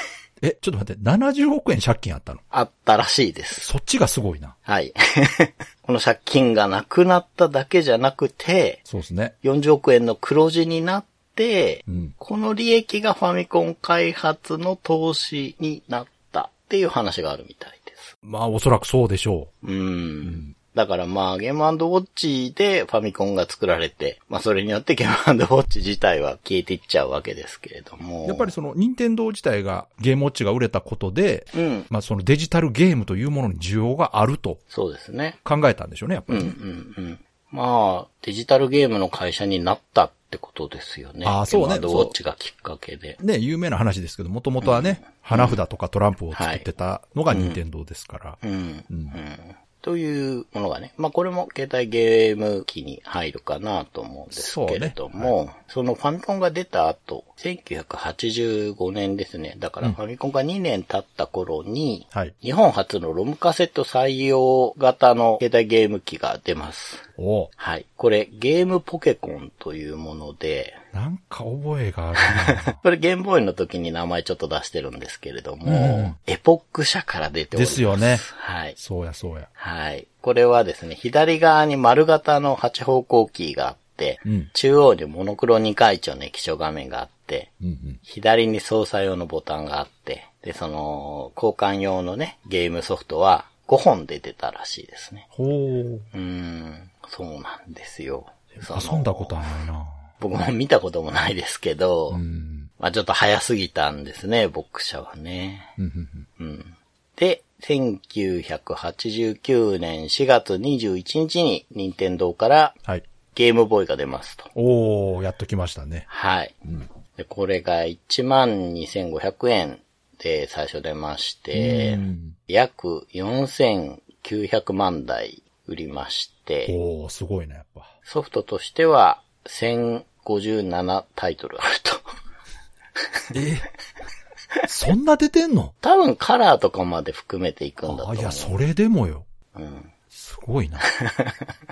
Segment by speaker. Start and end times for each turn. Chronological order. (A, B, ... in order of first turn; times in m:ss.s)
0:00.4-0:02.4 A
0:02.5-0:03.7 B
0:03.5-0:04.5 A
0:04.6-0:08.8 B
0:08.9-0:09.3 A
0:09.4-0:18.1 B
0:11.9-0:12.1 A
0:18.2-0:19.5 A
0:19.6-0:28.5 B
0:20.2-0:20.5 A
0:28.2-0:34.6 A
0:31.5-0:31.9 B
0:34.7-0:35.4 B
0:35.4-0:36.5 A
0:36.3-0:43.2 B
0:41.2-0:42.1 A
0:43.2-0:48.4 A
0:44.6-0:45.6 B
0:46.3-0:46.6 B
0:47.3-0:47.6 B
0:48.4-1:07.0 B
0:48.9-0:49.2 A
0:54.3-0:55.3 A
1:07.2-1:07.5 A
1:07.6-1:10.8 B
1:10.9-1:12.8 A
1:12.2-1:18.8 B
1:15.6-1:16.2 A
1:17.5-1:19.5 A
1:19.6-1:27.5 B
1:27.6-1:28.0 A
1:28.0-1:35.3 B
1:35.3-1:36.0 A
1:36.1-1:39.4 B
1:38.7-1:40.0 A
1:40.2-1:42.2 B
1:42.1-1:42.7 A
1:42.8-1:45.7 B
1:45.8-1:46.3 A
1:46.4-1:52.8 B
1:53.3-1:54.5 B
1:54.5-1:56.0 A
1:56.1-1:56.6 B
1:57.2-2:06.7 B
2:01.5-2:02.4 A
2:06.6-2:07.9 A
2:08.0-2:12.0 B
2:13.3-2:13.7 A
2:14.7-2:15.7 A
2:15.8-2:18.6 B
2:17.9-2:19.2 A
2:19.5-2:19.9 B
2:20.1-2:20.8 A
2:20.8-2:21.5 B